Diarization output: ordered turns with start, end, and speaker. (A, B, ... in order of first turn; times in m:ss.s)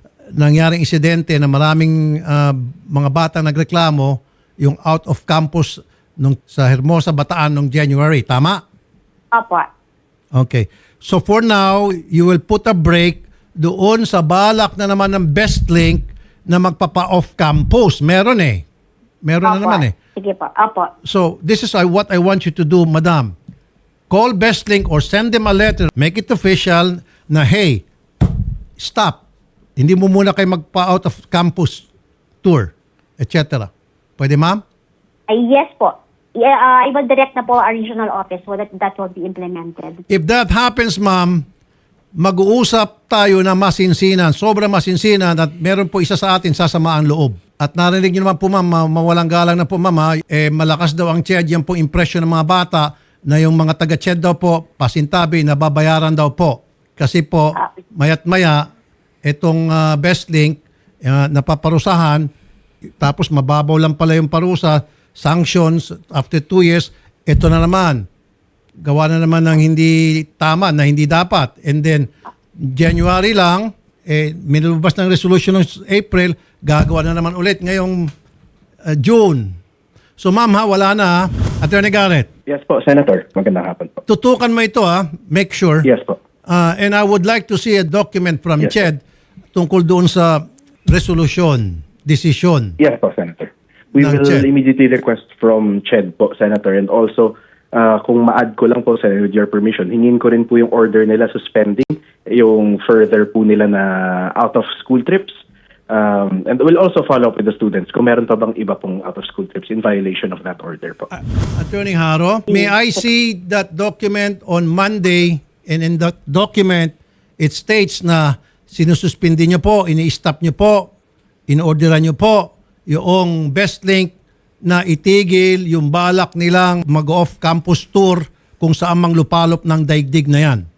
0:00.4-0:08.6 A
0:09.3-0:09.6 B
0:10.3-0:18.6 A
0:19.2-0:19.9 A
0:19.4-0:20.9 B
0:21.0-0:23.3 A
0:24.1-0:27.8 A
0:28.8-0:29.2 A
0:29.8-0:31.8 A
0:32.4-0:34.6 A
0:35.3-0:40.0 B
0:40.1-0:41.4 A
0:42.2-0:58.6 A
0:59.2-1:02.3 A
1:03.0-1:08.0 A
1:08.8-1:12.1 A
1:12.6-1:18.1 A
1:19.0-1:19.5 A
1:20.2-1:22.3 A
1:22.5-1:24.0 C
1:24.1-1:25.9 A
1:25.8-1:26.2 C
1:26.5-1:29.0 A
1:29.5-1:32.8 A
1:32.8-1:51.1 C
1:34.0-1:34.4 A
1:51.1-2:00.9 A
2:01.5-2:04.1 A
2:04.6-2:10.6 A